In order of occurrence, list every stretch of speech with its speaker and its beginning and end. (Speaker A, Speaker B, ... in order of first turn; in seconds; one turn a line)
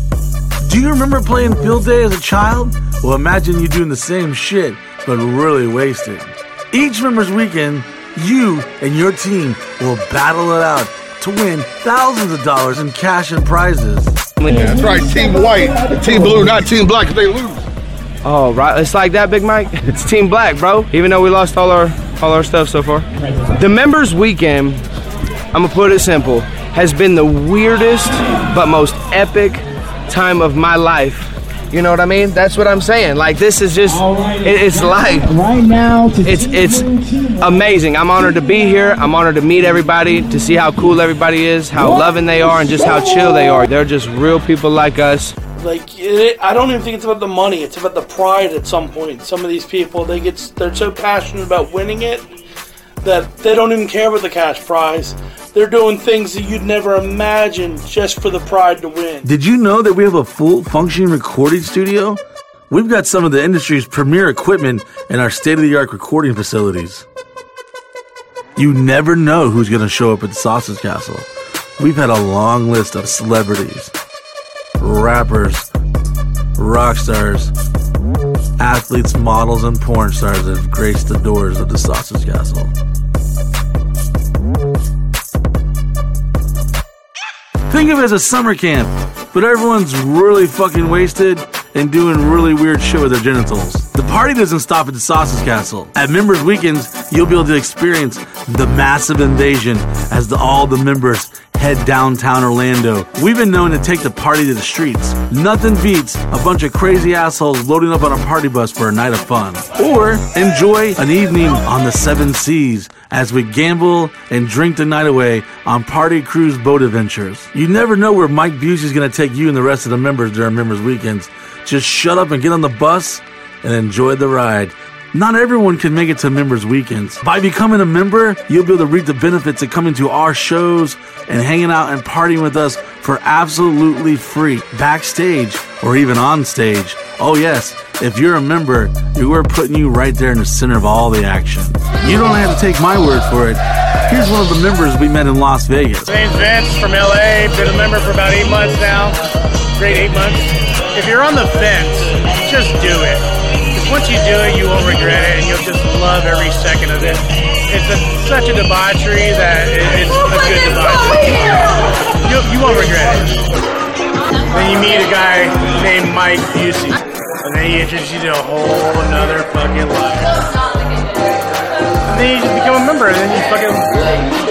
Speaker A: 0.6-14.2
Speaker B: 14.4-14.9
Speaker C: 14.5-16.7
Speaker D: 14.5-17.6
Speaker B: 18.2-24.8
Speaker B: 25.5-35.4
Speaker C: 33.9-37.5
Speaker B: 36.2-45.4
Speaker C: 41.8-43.7
Speaker E: 45.6-52.3
Speaker E: 53.0-59.3
Speaker A: 59.2-67.1
Speaker A: 68.6-71.3
Speaker A: 71.8-73.9
Speaker A: 74.8-75.7
Speaker A: 76.6-77.5
Speaker A: 78.6-82.7
Speaker A: 87.7-146.2
Speaker F: 146.1-149.2
Speaker F: 149.8-161.7
Speaker F: 162.2-163.4
Speaker F: 164.5-170.4
Speaker F: 172.1-174.1